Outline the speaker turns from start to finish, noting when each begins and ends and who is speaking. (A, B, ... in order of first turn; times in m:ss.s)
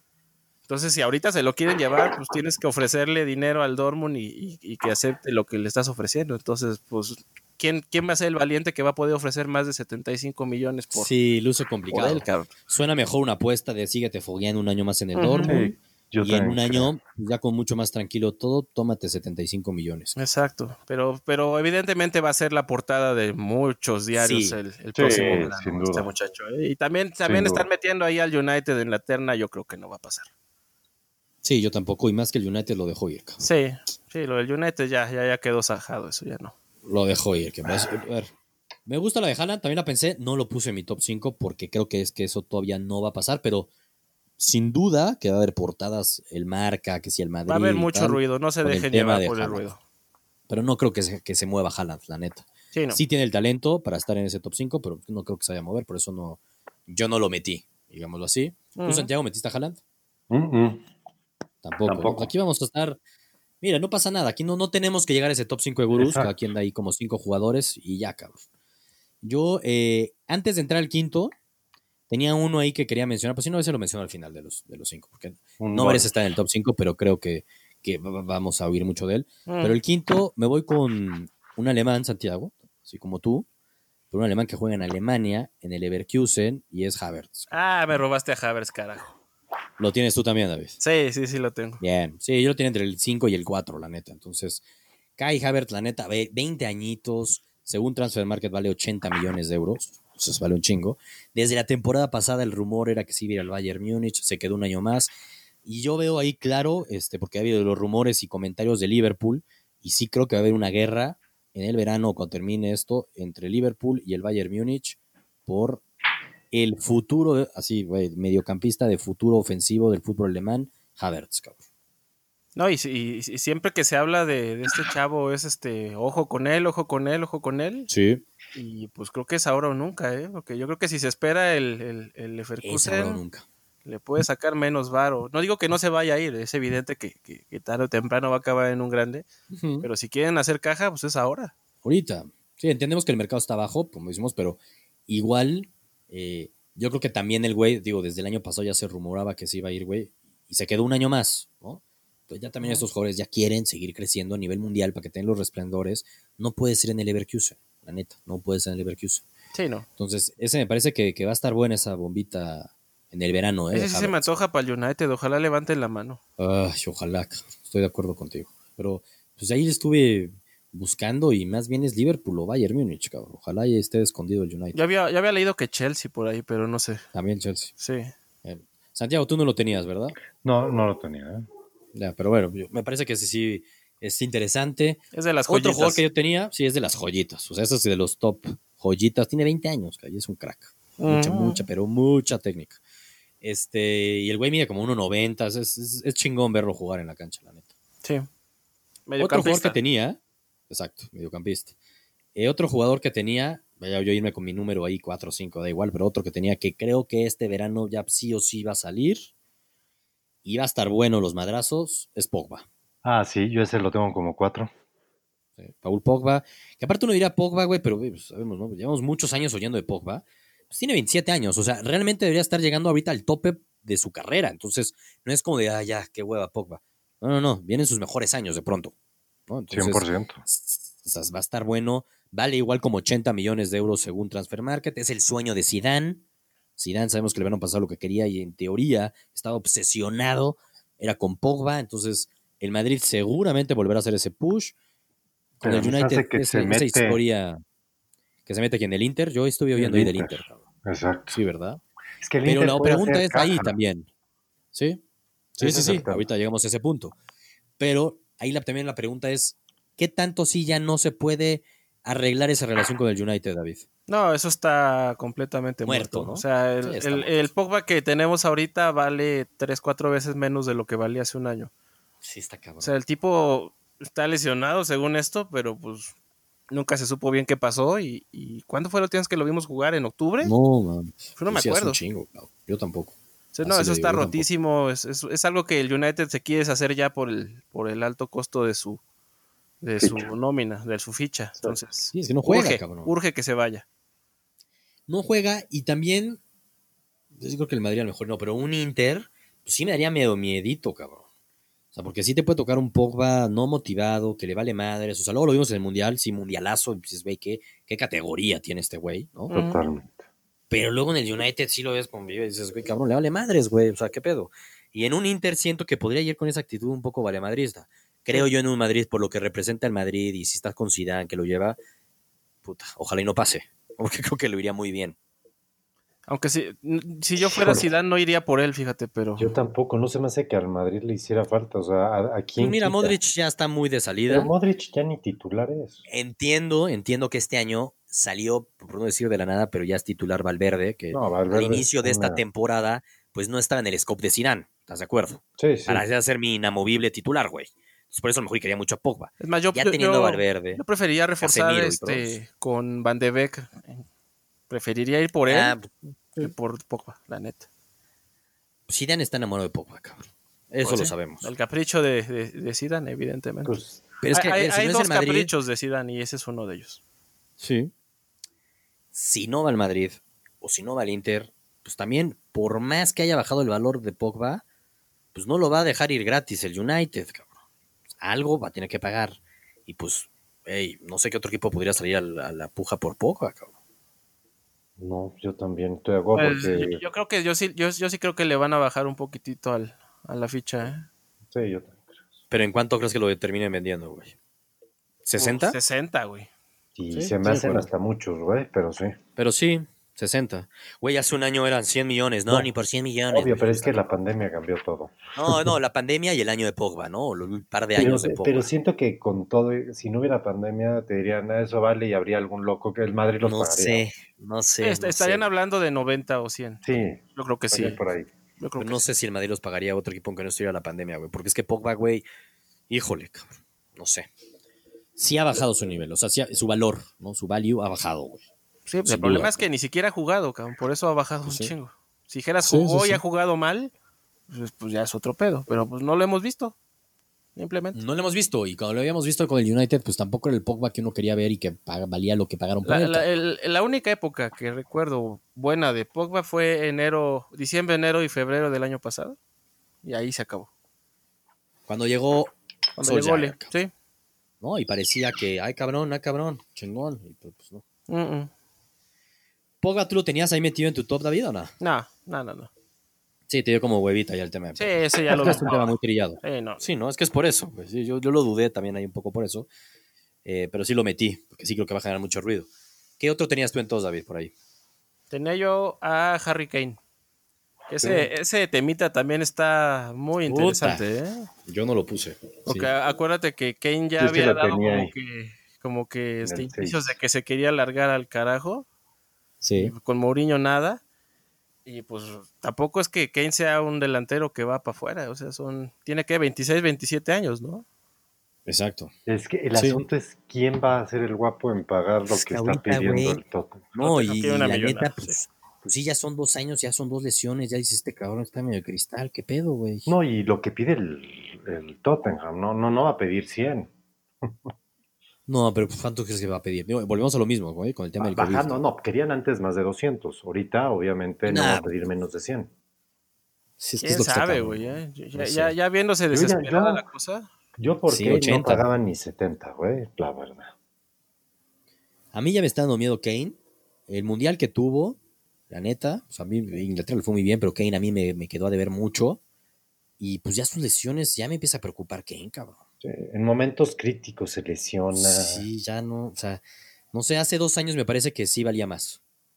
0:00.7-0:11.1 A
0:10.9-0:15.6 B
0:11.9-0:12.5 A
0:15.2-0:15.7 A
0:15.4-0:16.9 C
0:16.2-0:20.1 B
0:20.2-0:30.3 A
0:24.1-0:25.5 B
0:24.9-0:26.1 C
0:27.2-0:27.6 C
0:31.4-0:33.4 B
0:33.4-0:36.5 A
0:36.8-0:38.3 B
0:38.8-0:43.7 B
0:44.4-0:49.6 B
0:47.5-0:49.8 A
0:50.5-0:59.8 B
0:52.7-0:53.0 A
0:58.7-0:59.1 A
1:00.3-1:00.8 C
1:01.6-1:03.0 B
1:01.8-1:02.3 C
1:03.6-1:08.4 B
1:05.9-1:06.3 C
1:09.2-1:11.3 B
1:12.1-1:23.4 B
1:15.6-1:16.1 C
1:19.4-1:19.8 A
1:24.1-1:27.5 B
1:27.5-1:29.1 A
1:29.8-1:30.8 B
1:30.8-1:31.8 A
1:31.8-1:34.6 B
1:35.2-1:45.1 B
1:45.6-1:55.8 B
1:56.5-2:01.6 B
2:02.6-2:07.9 A
2:07.9-2:08.2 B
2:08.5-2:13.2 A
2:12.6-2:13.4 B
2:13.8-2:19.2 A
2:19.5-2:19.9 B
2:19.8-2:21.5 A
2:21.8-2:39.2 B
2:32.6-2:32.8 A
2:39.5-2:39.8 A
2:40.0-2:44.3 B
2:43.7-2:46.2 A
2:46.4-2:54.8 B
2:54.7-2:57.0 A
2:57.1-2:57.7 B
2:57.8-2:58.1 A
2:58.4-3:00.2 B
3:00.4-3:01.5 C
3:01.9-3:12.8 B
3:05.1-3:06.0 A
3:11.0-3:11.6 A
3:13.4-3:17.6 B
3:19.1-3:19.8 A
3:19.2-3:20.2 B
3:20.7-3:21.7 B
3:22.3-3:29.3 B
3:30.4-3:32.6 B
3:33.0-3:34.7 C
3:35.6-3:48.9 B
3:49.5-3:56.2 B
3:49.7-3:50.4 C
3:56.8-4:04.7 B
4:05.6-4:07.6 B
4:05.6-4:07.2 C
4:08.4-4:10.6 B
4:09.7-4:11.4 C
4:11.3-4:11.8 B
4:12.2-4:13.7 C
4:12.4-4:14.1 B
4:14.7-4:15.0 B
4:15.6-4:17.1 B
4:15.6-4:16.3 C
4:17.8-4:23.8 B
4:24.1-4:31.7 A
4:25.8-4:27.4 B
4:32.2-4:32.9 B
4:32.8-4:36.1 A
4:36.7-4:40.5 A
4:40.4-4:44.4 B
4:41.4-4:42.0 A
4:43.5-4:49.0 A
4:49.8-4:53.8 A
4:50.0-4:50.3 C
4:52.1-4:53.1 B
4:55.1-4:56.4 B
4:57.4-5:01.2 B
5:01.9-5:09.5 B
5:09.5-5:09.8 A
5:09.5-5:10.2 C
5:10.7-5:21.8 B
5:22.6-5:25.2 B
5:26.3-5:29.5 A
5:27.4-5:27.9 C
5:29.4-5:33.2 C
5:32.6-5:34.5 B
5:34.3-5:36.0 C
5:36.1-5:50.8 B
5:41.1-5:42.4 C
5:45.6-5:46.0 C
5:49.4-5:54.0 A
5:51.4-5:52.4 B
5:54.7-5:55.8 A
5:55.5-5:56.5 B
5:56.3-5:57.6 A
5:58.9-6:01.5 B
6:00.8-6:03.7 A
6:03.6-6:04.0 C
6:04.2-6:05.5 B
6:04.3-6:07.0 A
6:07.6-6:07.9 B
6:09.1-6:14.6 B
6:15.3-6:17.5 B
6:18.2-6:23.7 B
6:25.0-6:27.0 C
6:26.3-6:31.1 A
6:31.5-6:32.4 C
6:32.5-6:34.3 B
6:35.2-6:35.8 B
6:35.4-6:36.5 A
6:37.0-6:39.2 C
6:37.1-6:37.9 B
6:39.4-6:44.0 B
6:43.3-6:45.7 C
6:45.3-6:48.7 B
6:48.0-6:54.0 C
6:53.4-6:55.5 B
6:54.8-6:56.8 A
6:56.8-6:58.3 C
6:57.3-6:58.0 A
6:58.6-6:59.0 A
6:58.8-7:02.2 B
7:02.9-7:04.3 B
7:05.2-7:08.5 B
7:08.9-7:13.9 A
7:09.0-7:09.6 B
7:11.4-7:11.7 B
7:12.6-7:13.2 B
7:14.5-7:16.7 A
7:17.6-7:18.0 A
7:17.9-7:23.2 B
7:22.8-7:29.4 A
7:30.0-7:30.7 A
7:31.9-7:33.7 B
7:33.0-7:33.9 A
7:34.6-7:37.8 B
7:38.1-7:38.5 A
7:39.8-7:41.7 B
7:41.8-7:42.7 A
7:43.5-7:49.7 B
7:44.8-7:46.8 A
7:50.4-7:52.7 B
7:53.2-7:54.5 B
7:55.3-7:57.0 A
7:57.9-8:01.5 A
7:58.0-7:58.3 C
8:00.5-8:01.0 B
8:01.6-8:02.9 B
8:02.6-8:08.8 A
8:04.2-8:05.1 C
8:06.4-8:07.2 C
8:09.6-8:09.9 B
8:09.7-8:11.0 A
8:11.8-8:17.8 A
8:18.7-8:19.1 B
8:19.2-8:23.8 C
8:19.7-8:20.0 B
8:22.3-8:23.4 B
8:23.9-8:25.3 A
8:23.9-8:30.1 B
8:30.0-8:33.9 C
8:35.5-8:38.8 B
8:38.2-8:42.7 C
8:41.4-8:41.9 B
8:43.8-8:45.7 B
8:44.0-8:47.5 A
8:46.3-8:47.0 C
8:47.8-8:50.7 C
8:48.1-8:48.8 B
8:52.3-8:53.6 B
8:54.1-8:55.2 B
8:55.7-8:59.4 B
9:00.2-9:02.8 B
9:03.0-9:05.6 C
9:05.1-9:09.2 B